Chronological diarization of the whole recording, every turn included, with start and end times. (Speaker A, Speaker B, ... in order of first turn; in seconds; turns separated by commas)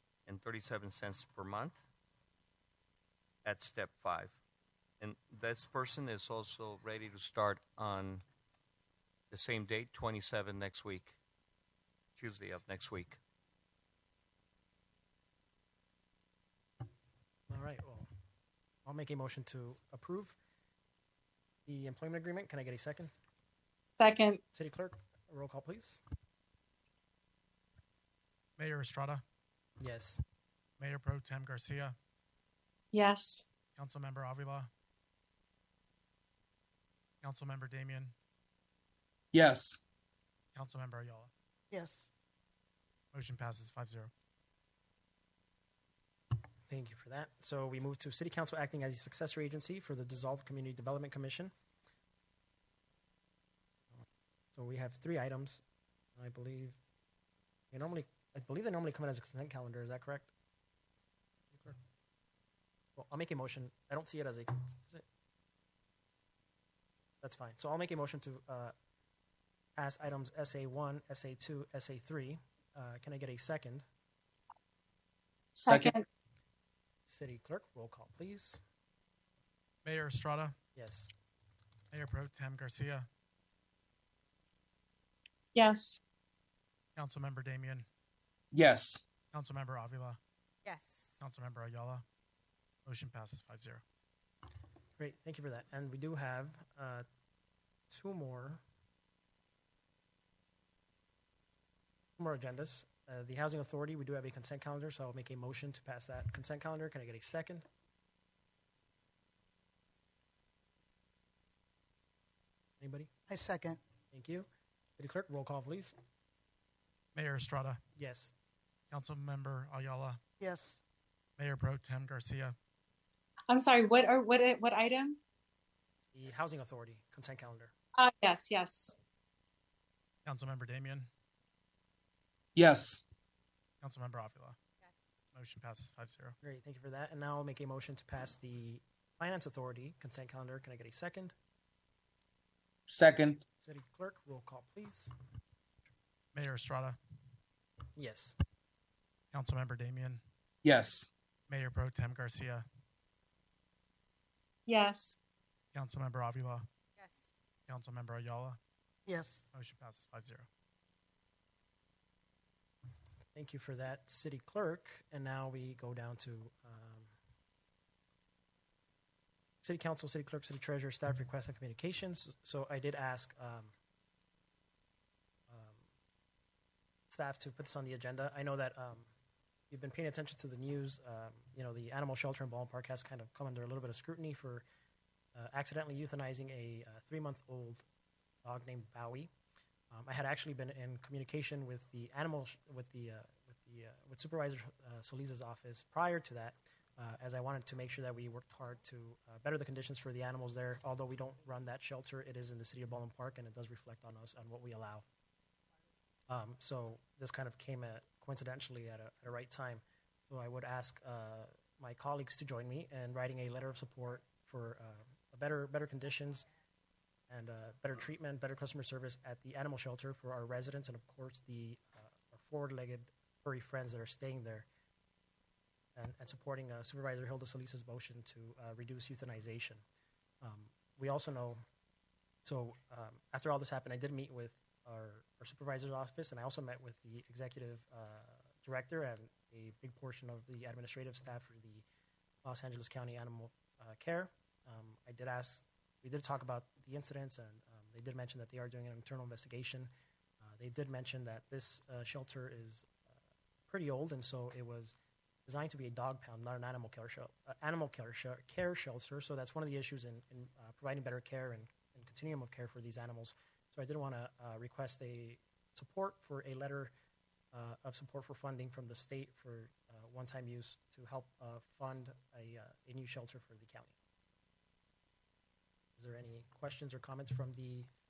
Speaker A: 0.2-1.8, Speaker A: 3.4-4.4, Speaker A: 5.0-8.2, Speaker A: 9.3-11.2, Speaker A: 12.2-13.2, Speaker B: 17.5-18.1, Speaker B: 18.8-20.4, Speaker B: 21.6-23.1, Speaker C: 23.9-24.4, Speaker B: 24.5-26.0, Speaker D: 28.6-29.2, Speaker B: 29.8-30.2, Speaker D: 30.8-31.9, Speaker C: 32.9-33.4, Speaker D: 33.8-34.7, Speaker D: 37.2-38.1, Speaker E: 39.3-39.8, Speaker D: 40.5-41.3, Speaker F: 41.7-42.1, Speaker D: 43.1-44.1, Speaker B: 46.7-51.5, Speaker B: 54.5-55.6, Speaker B: 56.2-56.8, Speaker B: 57.7-60.3, Speaker B: 61.5-61.8, Speaker B: 63.0-65.0, Speaker B: 67.2-68.7, Speaker B: 69.8-73.8, Speaker E: 75.5-75.9, Speaker C: 75.7-76.0, Speaker B: 77.0-78.6, Speaker D: 79.8-80.5, Speaker B: 80.8-81.1, Speaker D: 81.9-83.1, Speaker C: 85.5-86.0, Speaker D: 87.0-87.8, Speaker E: 88.5-89.0, Speaker D: 89.3-90.2, Speaker F: 90.7-90.9, Speaker D: 91.2-92.0, Speaker D: 92.8-93.8, Speaker B: 95.0-97.0, Speaker B: 97.9-98.6, Speaker B: 102.2-107.6, Speaker B: 112.8-113.1, Speaker F: 113.3-113.8, Speaker B: 114.1-114.5, Speaker B: 115.0-115.9, Speaker D: 117.1-117.8, Speaker B: 118.0-118.3, Speaker D: 118.9-120.2, Speaker F: 120.4-120.8, Speaker D: 121.4-122.5, Speaker C: 123.5-125.2, Speaker B: 126.1-127.7, Speaker C: 127.9-128.9, Speaker D: 130.2-131.1, Speaker E: 132.5-133.0, Speaker D: 133.8-134.6, Speaker D: 135.3-136.3, Speaker B: 136.4-141.3, Speaker E: 142.9-143.4, Speaker B: 143.6-145.1, Speaker D: 146.3-147.0, Speaker B: 147.9-148.3, Speaker D: 149.3-150.2, Speaker E: 150.6-151.1, Speaker D: 151.5-152.7, Speaker C: 154.7-155.1, Speaker D: 155.7-156.7, Speaker D: 157.7-158.6, Speaker F: 159.1-159.4, Speaker D: 159.5-160.5, Speaker B: 163.3-167.1, Speaker B: 169.6-173.7, Speaker B: 175.5-175.8, Speaker B: 177.1-179.1, Speaker B: 179.7-184.6, Speaker B: 185.3-187.8, Speaker B: 188.4-189.3, Speaker B: 189.9-205.0, Speaker B: 206.3-216.5, Speaker B: 217.3-224.7, Speaker B: 225.9-229.8, Speaker B: 230.4-231.6, Speaker B: 232.4-241.8, Speaker B: 242.4-249.9, Speaker B: 250.4-253.1, Speaker B: 253.7-254.9, Speaker B: 255.4-266.9, Speaker B: 267.5-273.9, Speaker B: 276.0-277.9